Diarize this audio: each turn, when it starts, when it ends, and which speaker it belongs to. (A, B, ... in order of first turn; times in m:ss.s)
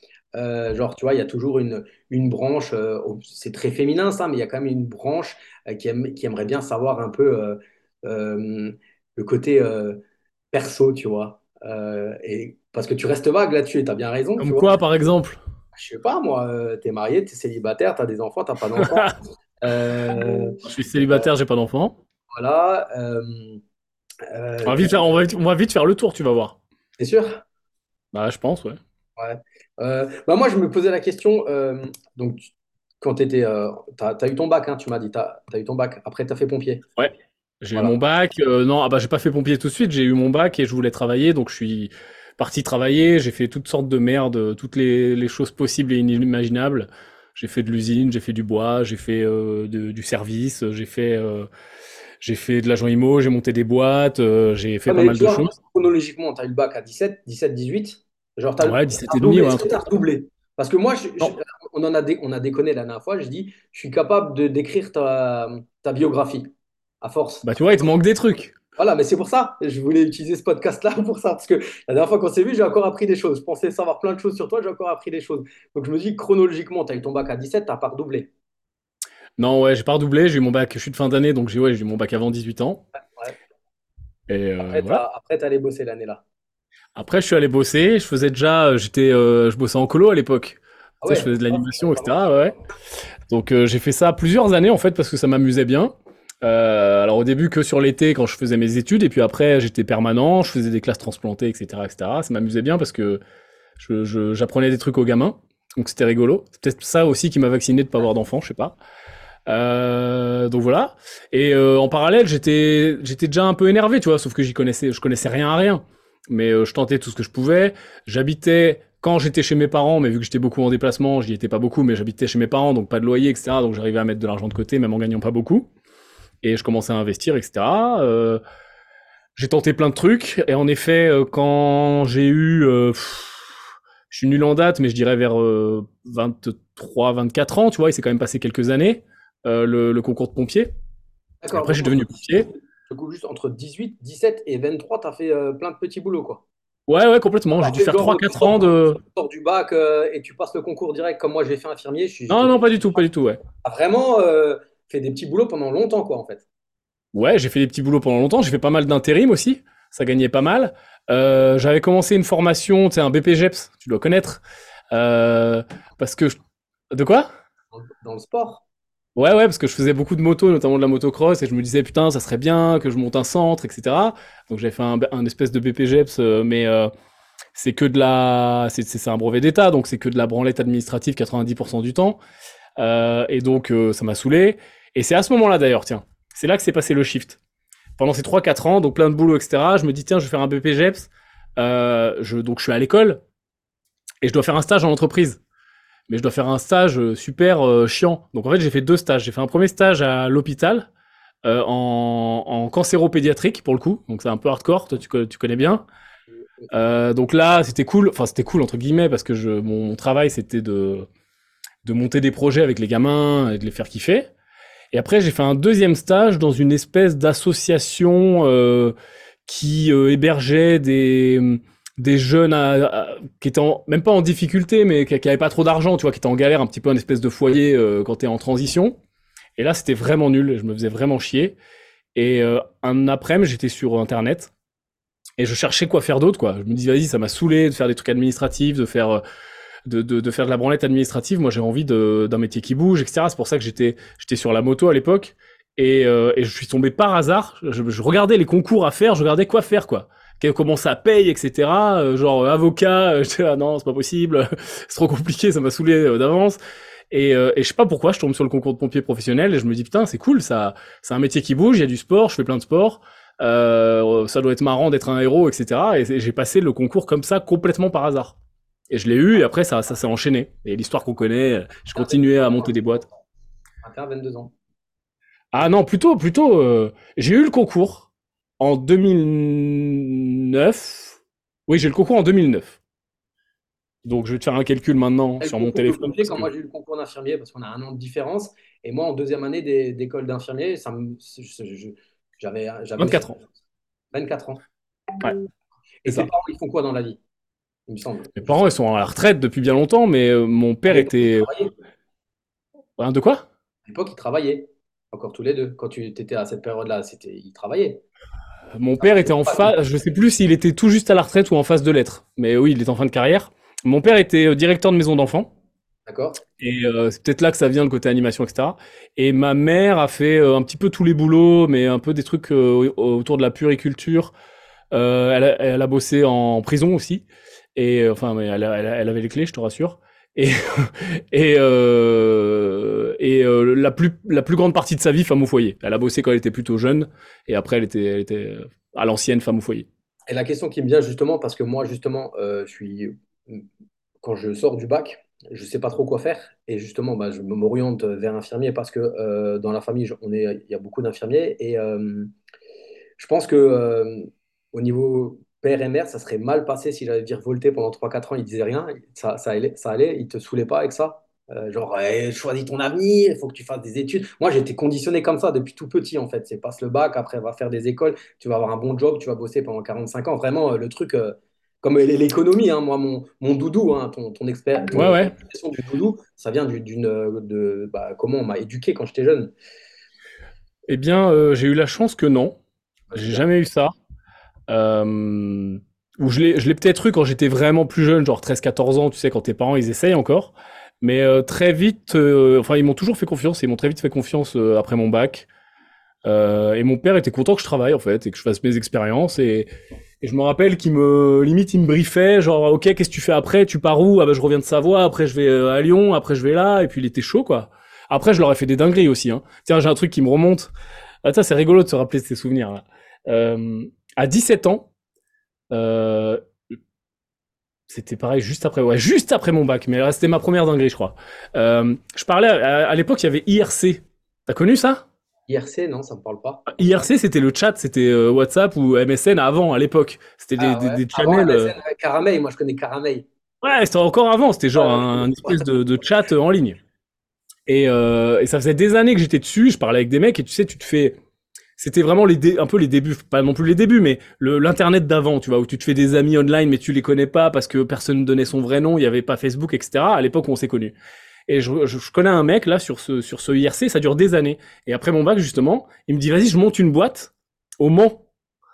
0:00.3-0:10.0 A
0:10.5-0:14.7 A
0:14.4-0:15.4 B
0:15.7-0:21.2 A
0:18.8-0:19.1 B
0:20.0-0:22.0 B
0:22.3-0:23.6 A
0:24.3-0:25.0 A
0:24.6-0:26.6 B
0:27.0-0:27.4 A
0:28.1-0:28.8 B
0:29.2-0:32.5 A
0:33.0-0:36.9 A
0:37.0-0:51.5 B
0:52.2-0:55.5 B
0:54.9-1:06.5 A
0:58.6-0:59.8 B
1:07.0-1:07.8 A
1:07.4-1:08.5 B
1:08.8-1:18.3 A
1:19.4-1:22.8 B
1:24.3-1:25.0 B
1:24.6-1:26.2 A
1:27.0-1:32.6 B
1:31.0-1:32.6 A
1:33.3-1:43.2 B
1:43.8-1:48.8 B
1:49.5-2:05.7 B
2:06.4-2:08.4 B
2:09.4-2:13.5 B
2:14.1-2:20.7 B
2:21.4-2:22.2 A
2:21.5-2:22.5 B
2:22.9-2:26.4 A
2:26.9-2:29.0 B
2:27.6-2:32.9 A
2:32.3-2:33.4 B
2:33.6-2:36.4 A
2:37.1-2:44.4 B
2:44.9-2:46.4 B
2:46.9-2:47.3 B
2:47.7-2:48.6 A
2:49.2-2:56.9 B
2:57.5-3:02.2 B
3:02.8-3:07.4 B
3:08.0-3:13.2 B
3:14.2-3:15.4 B
3:16.1-3:20.9 B
3:21.4-3:25.8 B
3:26.7-3:31.1 B
3:31.8-3:34.3 B
3:34.9-3:38.9 B
3:39.4-3:49.0 B
3:49.6-3:51.6 B
3:52.1-3:54.5 B
3:55.4-3:59.2 B
3:59.8-4:16.6 B
4:17.1-4:28.4 B
4:28.9-4:33.0 B
4:32.0-4:32.7 A
4:33.8-4:34.5 A
4:35.5-4:38.1 B
4:38.6-4:42.8 B
4:44.0-4:46.5 B
4:45.4-4:53.4 A
4:53.0-4:53.3 B
4:54.1-4:54.6 A
4:56.0-4:57.2 A
4:57.9-4:58.5 A
4:58.4-5:01.5 B
5:00.9-5:01.7 A
5:03.0-5:03.4 B
5:03.9-5:08.0 A
5:08.7-5:15.5 B
5:09.0-5:09.7 A
5:16.1-5:16.4 A
5:16.6-5:24.3 B
5:24.9-5:27.2 B
5:27.8-5:39.9 B
5:40.3-5:43.6 A
5:44.2-5:52.3 A
5:53.2-6:19.5 A
6:14.9-6:15.3 B
6:20.9-6:22.6 B
6:23.1-6:23.4 A
6:23.1-6:23.9 B
6:24.7-6:35.5 B
6:36.2-6:39.7 B
6:40.2-6:50.7 B
6:51.2-6:54.9 B
6:55.7-6:56.4 B
6:57.9-7:05.0 B
7:05.5-7:06.7 A
7:06.7-7:11.7 B
7:10.6-7:13.3 A
7:13.6-7:16.8 B
7:14.8-7:15.7 A
7:17.7-7:21.2 B
7:21.8-7:30.9 B
7:31.5-7:38.2 B